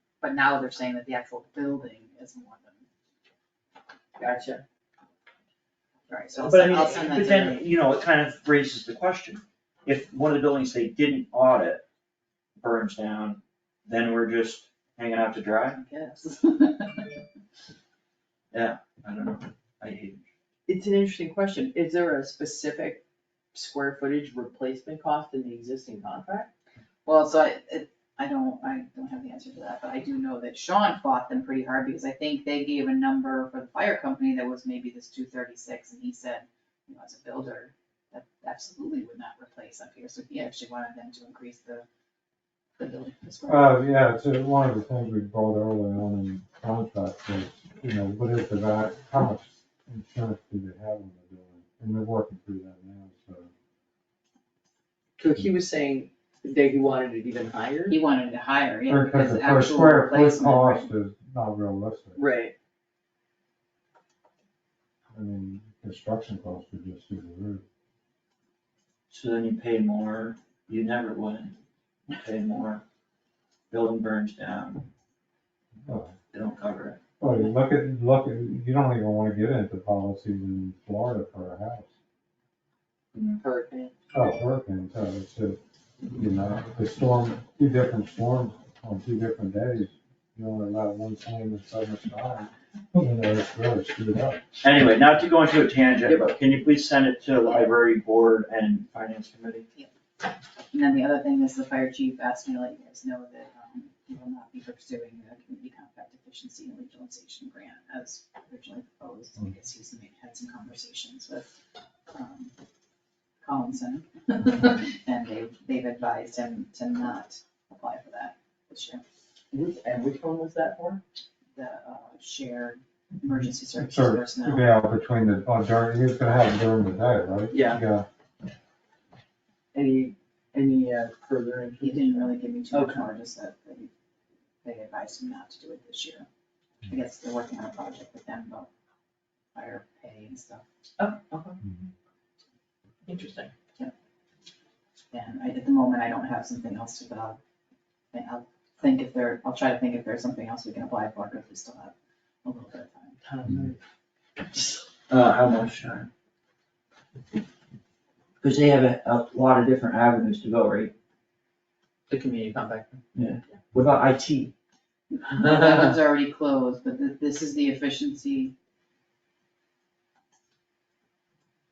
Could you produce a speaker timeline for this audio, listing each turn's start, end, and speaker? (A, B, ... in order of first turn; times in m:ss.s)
0:00.2-0:02.8 A
0:04.2-0:04.6 B
0:06.1-0:07.6 A
0:06.4-0:11.8 C
0:12.6-0:15.8 C
0:15.7-0:17.1 A
0:18.5-0:20.2 C
0:20.7-0:23.0 B
0:23.5-0:26.5 B
0:27.0-0:41.8 A
0:42.8-0:43.9 A
0:43.5-0:53.5 D
0:55.2-0:58.0 B
0:57.9-1:00.9 A
0:58.9-1:02.2 D
1:02.2-1:02.5 B
1:05.1-1:07.6 D
1:09.1-1:11.6 C
1:12.1-1:12.8 C
1:13.7-1:14.9 C
1:15.8-1:16.2 D
1:16.3-1:17.0 C
1:17.2-1:21.9 D
1:23.1-1:23.9 B
1:24.1-1:34.4 D
1:34.6-1:39.6 C
1:37.4-1:37.7 A
1:40.7-1:51.6 A
1:52.1-1:52.5 A
1:53.4-1:59.0 A
1:59.5-2:01.0 B
2:01.5-2:04.7 A
2:03.8-2:08.1 D
2:07.5-2:07.8 B
2:09.7-2:13.0 B
2:11.8-2:13.9 A
2:14.6-2:16.3 A
2:16.9-2:18.7 A
2:19.5-2:20.6 A
2:21.0-2:21.6 B
2:23.0-2:23.5 B
2:25.1-2:27.4 A
2:28.1-2:33.2 A
2:33.2-2:33.8 B
2:35.1-2:36.1 C
2:38.4-2:40.9 C
2:42.1-2:43.0 B
2:43.1-2:44.5 C
2:45.1-2:48.5 A